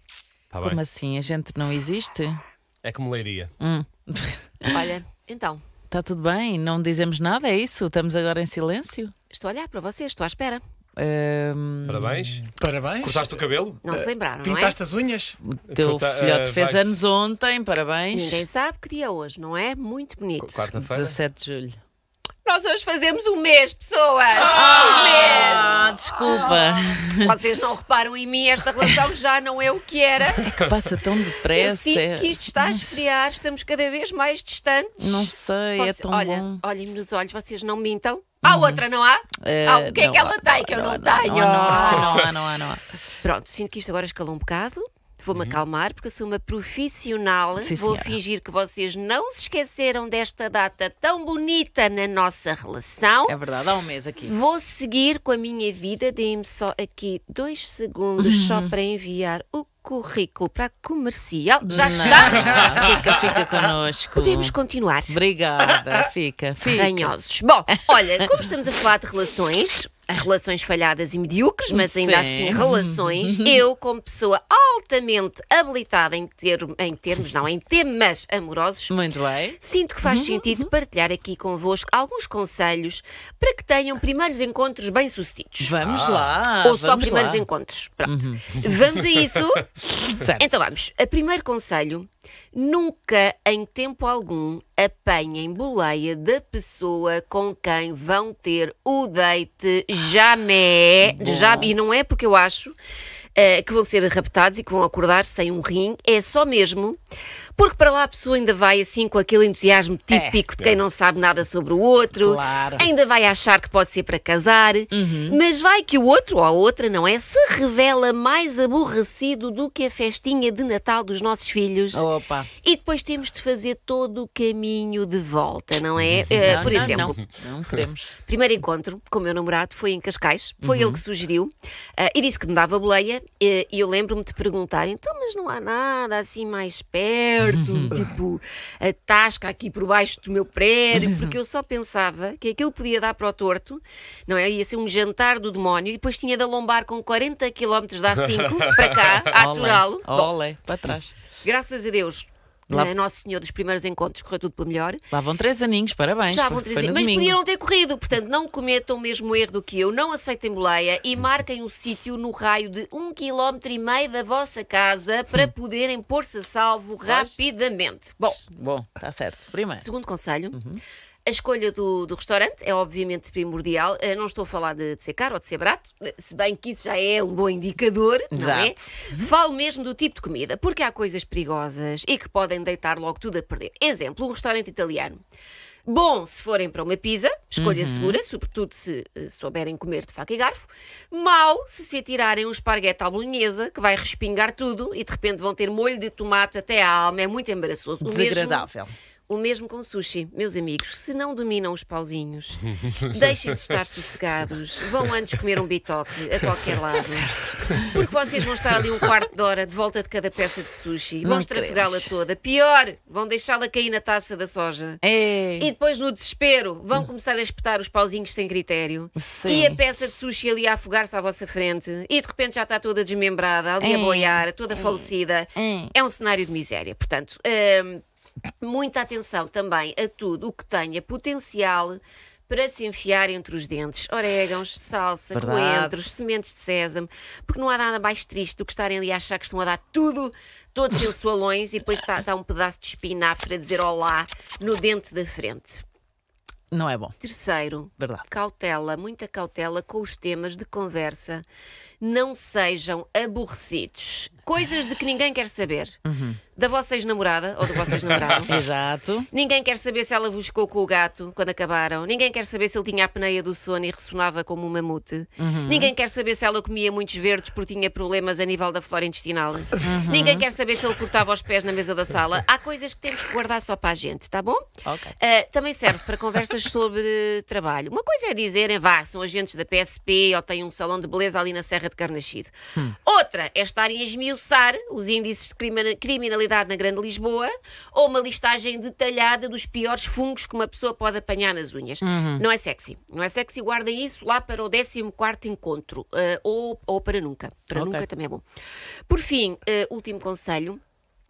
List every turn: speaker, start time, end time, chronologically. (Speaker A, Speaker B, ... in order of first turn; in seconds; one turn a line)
Speaker A: 0.5-0.8
Speaker B: 0.6-2.4
Speaker A: 2.8-3.5
Speaker B: 3.6-4.6
Speaker C: 4.7-5.6
Speaker B: 5.9-9.1
Speaker C: 9.3-10.6
Speaker B: 11.0-12.2
Speaker A: 11.9-12.4
Speaker D: 12.5-13.4
Speaker A: 13.0-13.9
Speaker C: 13.8-14.8
Speaker D: 13.9-15.4
Speaker B: 15.4-18.4
Speaker A: 15.7-17.0
Speaker C: 18.1-20.7
Speaker A: 20.4-21.2
Speaker B: 20.7-21.8
Speaker C: 22.4-26.5
Speaker B: 24.4-27.3
Speaker C: 27.2-30.5
Speaker B: 30.4-32.9
Speaker C: 31.5-42.3
Speaker B: 35.0-36.6
Speaker B: 38.4-38.8
Speaker B: 39.4-42.8
Speaker C: 43.2-53.4
Speaker A: 45.3-45.6
Speaker B: 47.6-48.2
Speaker B: 53.3-54.3
Speaker C: 54.2-63.0
Speaker B: 58.2-58.7
Speaker B: 61.7-64.5
Speaker C: 64.2-65.2
Speaker B: 65.1-67.1
Speaker C: 66.7-79.0
Speaker B: 67.7-68.4
Speaker B: 71.7-73.6
Speaker B: 78.9-80.7
Speaker C: 79.6-85.8
Speaker B: 85.6-87.5
Speaker A: 85.8-86.4
Speaker C: 86.6-89.7
Speaker B: 88.0-88.5
Speaker B: 90.0-90.5
Speaker C: 90.4-102.8
Speaker B: 101.0-101.7
Speaker C: 103.4-107.0
Speaker C: 107.6-122.0
Speaker B: 110.1-110.4
Speaker B: 112.2-112.9
Speaker B: 114.9-115.4
Speaker B: 121.9-122.5
Speaker C: 122.6-127.2
Speaker B: 126.3-128.1
Speaker C: 128.3-150.3
Speaker B: 130.6-131.0
Speaker B: 137.5-138.0
Speaker B: 140.9-141.3
Speaker B: 149.3-151.1
Speaker C: 151.4-155.0
Speaker B: 152.7-152.9
Speaker B: 155.1-157.4
Speaker C: 156.3-168.4
Speaker B: 167.0-167.3
Speaker B: 168.5-169.8
Speaker C: 169.7-170.6
Speaker B: 170.5-170.8
Speaker C: 171.3-185.2
Speaker B: 178.3-179.3
Speaker C: 185.9-198.7
Speaker B: 187.6-188.2
Speaker B: 198.0-198.9
Speaker C: 199.3-215.0
Speaker B: 206.9-207.9
Speaker B: 211.2-212.1
Speaker B: 215.0-215.7
Speaker C: 215.6-228.0
Speaker B: 219.2-219.8
Speaker B: 223.8-225.9
Speaker C: 228.6-245.8
Speaker B: 235.3-236.0
Speaker B: 246.7-247.2
Speaker C: 247.2-251.4
Speaker B: 248.0-248.3
Speaker C: 252.0-256.0
Speaker B: 256.1-256.4
Speaker C: 256.6-258.6
Speaker B: 258.4-259.3
Speaker C: 259.3-274.7
Speaker B: 265.4-265.9
Speaker B: 269.8-270.5
Speaker B: 274.8-275.1
Speaker C: 275.2-298.4
Speaker B: 292.0-292.4
Speaker B: 297.7-298.1
Speaker C: 299.1-300.8